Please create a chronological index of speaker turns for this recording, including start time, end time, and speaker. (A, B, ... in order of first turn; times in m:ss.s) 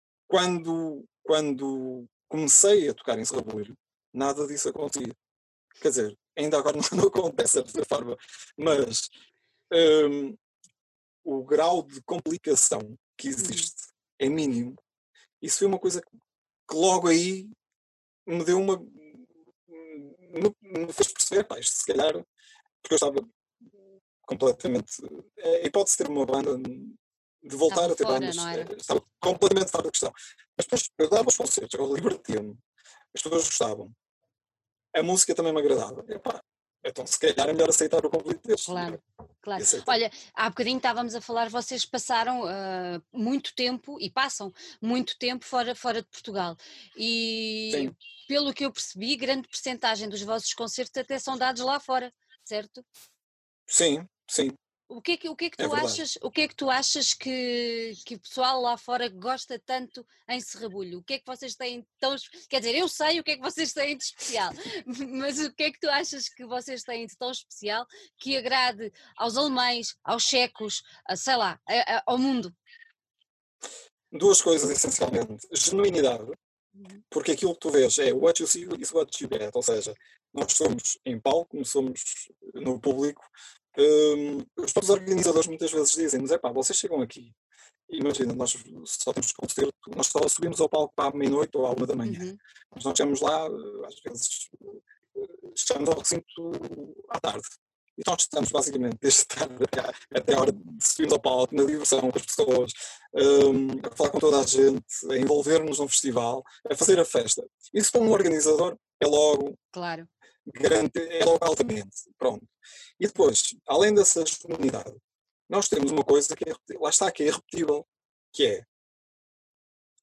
0:00.3-0:05.2 A
0:05.8-0:09.1 A
0:09.7-0:10.4 A
0:11.2-0:14.8 A
0:13.4-0:13.7 B
0:15.4-0:16.0 A
0:16.7-0:17.5 A
0:18.2-0:22.2 A
0:22.8-0:23.2 A
0:24.2-0:32.6 A
0:27.7-0:28.7 B
0:33.1-0:33.9 A
0:34.9-0:39.0 A
0:38.7-0:52.8 B
0:39.6-0:39.9 A
0:53.7-0:54.6 A
0:54.9-1:12.6 B
0:55.6-0:56.0 A
1:14.1-1:16.4 A
1:17.1-1:27.3 A
1:27.9-1:49.6 A
1:32.0-1:32.4 B
1:49.7-1:50.1 B
1:50.4-1:58.6 A